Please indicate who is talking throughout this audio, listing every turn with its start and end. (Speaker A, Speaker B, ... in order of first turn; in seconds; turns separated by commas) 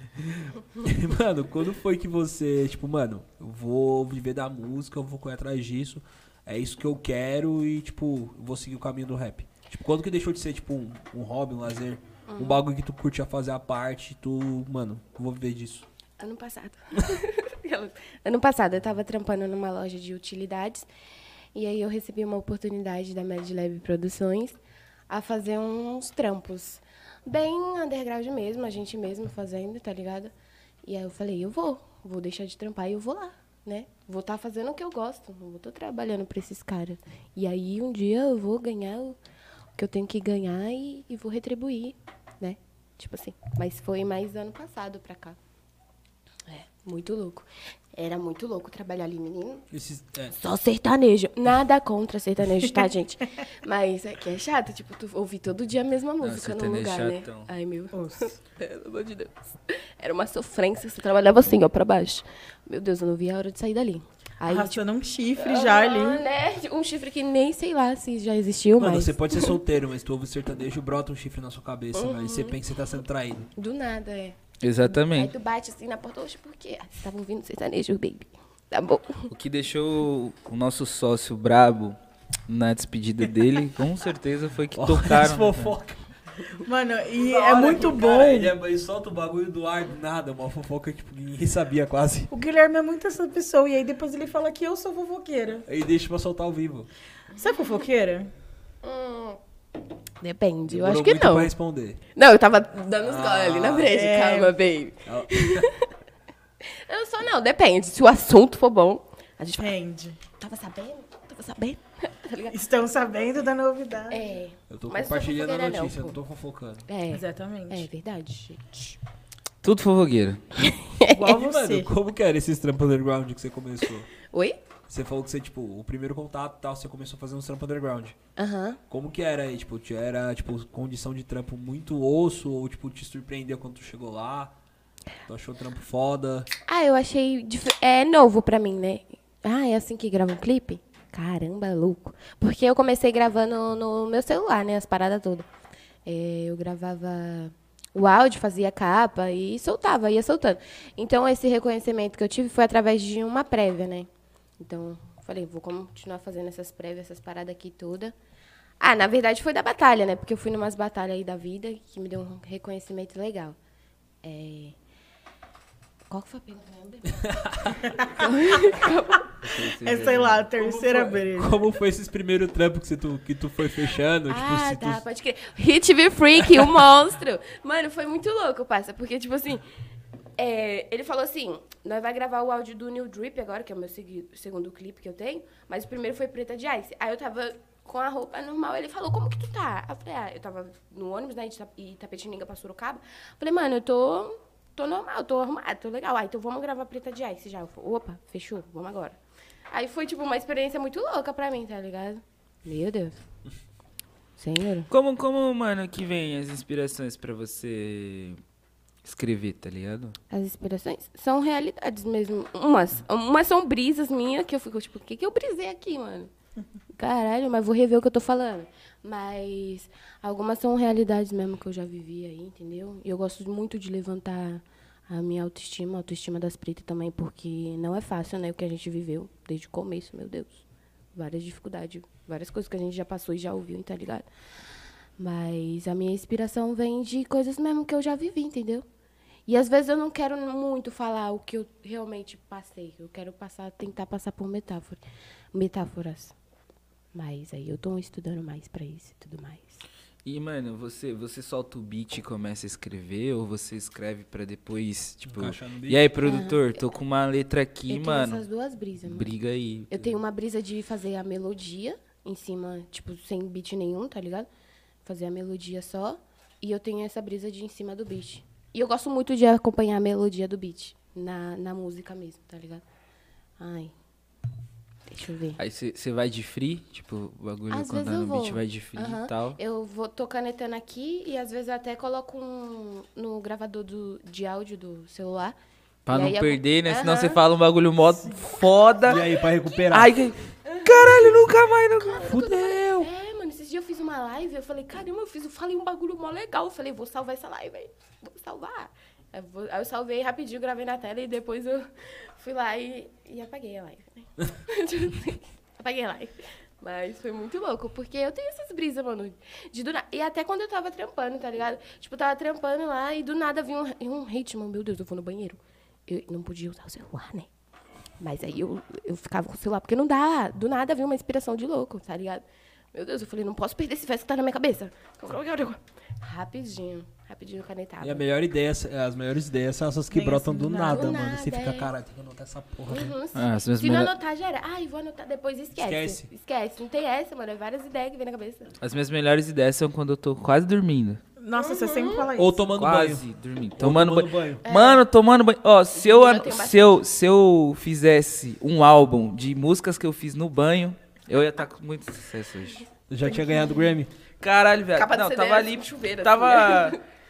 Speaker A: 0.1-15.8, Speaker B: 12.3-12.6, Speaker B: 16.2-20.9, Speaker B: 21.5-24.6, Speaker B: 25.1-30.3, Speaker B: 30.8-39.2, Speaker B: 39.8-45.4, Speaker B: 46.5-49.6, Speaker A: 49.7-50.4, Speaker B: 50.3-64.8, Speaker C: 56.2-57.5, Speaker D: 57.9-58.3, Speaker D: 64.5-66.2, Speaker B: 65.4-69.6, Speaker A: 68.8-73.5, Speaker B: 71.9-72.6, Speaker B: 73.5-74.4, Speaker C: 74.6-75.3, Speaker B: 74.9-79.3, Speaker C: 79.3-82.0, Speaker C: 82.5-85.8, Speaker A: 84.8-86.0, Speaker D: 86.6-88.5, Speaker A: 87.2-92.3, Speaker D: 92.3-95.6, Speaker A: 95.7-96.9, Speaker D: 97.3-98.3, Speaker B: 98.8-99.4, Speaker B: 100.2-101.5, Speaker A: 100.7-102.0, Speaker B: 102.2-105.8, Speaker A: 103.0-104.0, Speaker D: 103.8-104.6, Speaker A: 105.0-105.7, Speaker B: 106.7-109.7, Speaker D: 109.6-110.2, Speaker B: 110.4-112.5, Speaker D: 112.5-114.3, Speaker B: 114.1-116.2, Speaker A: 114.7-116.9, Speaker B: 116.9-119.0, Speaker D: 117.1-117.9, Speaker C: 119.6-120.4, Speaker B: 120.6-121.2, Speaker D: 121.1-121.9, Speaker A: 121.2-124.1, Speaker B: 124.3-124.6, Speaker A: 124.9-128.2, Speaker B: 128.4-128.8, Speaker A: 128.9-134.5, Speaker A: 135.3-136.5, Speaker B: 136.7-145.5, Speaker B: 146.0-154.1, Speaker B: 154.6-158.1, Speaker B: 158.8-163.6, Speaker B: 164.2-164.7, Speaker B: 166.1-169.3, Speaker A: 167.2-167.8, Speaker D: 167.9-168.3, Speaker C: 169.4-170.4, Speaker D: 169.6-171.6, Speaker A: 170.6-175.0, Speaker B: 174.3-179.6, Speaker B: 180.4-199.2, Speaker B: 199.7-203.2, Speaker B: 204.4-204.9, Speaker C: 204.9-208.4, Speaker C: 209.0-210.2, Speaker B: 210.3-216.3, Speaker B: 216.9-230.6, Speaker B: 231.1-234.2, Speaker B: 235.2-238.8, Speaker B: 239.5-245.0, Speaker B: 245.5-246.3, Speaker B: 247.1-249.8, Speaker C: 250.2-258.4, Speaker A: 255.2-256.1, Speaker B: 256.2-256.8, Speaker B: 257.9-259.3, Speaker C: 259.0-260.2, Speaker B: 259.9-264.5, Speaker B: 265.0-272.8, Speaker B: 273.6-273.9, Speaker B: 275.1-275.6, Speaker C: 275.6-279.6, Speaker B: 277.7-285.6, Speaker C: 286.1-289.2, Speaker B: 286.1-287.4, Speaker A: 289.0-290.1, Speaker B: 289.4-289.9, Speaker C: 289.9-292.3, Speaker B: 290.6-291.4, Speaker B: 292.0-317.5, Speaker A: 292.2-293.1, Speaker B: 318.2-328.2, Speaker A: 328.0-333.1, Speaker D: 330.1-331.2, Speaker B: 330.9-331.9, Speaker B: 332.9-338.7, Speaker C: 333.3-334.1, Speaker A: 335.8-336.3, Speaker C: 338.8-341.2, Speaker D: 341.4-342.6, Speaker B: 341.5-342.2, Speaker A: 342.4-343.2, Speaker C: 342.8-352.9, Speaker A: 343.8-344.6, Speaker B: 344.6-345.0, Speaker B: 345.9-347.0, Speaker A: 353.1-354.1, Speaker D: 353.2-353.8, Speaker C: 354.4-357.0, Speaker B: 354.9-357.0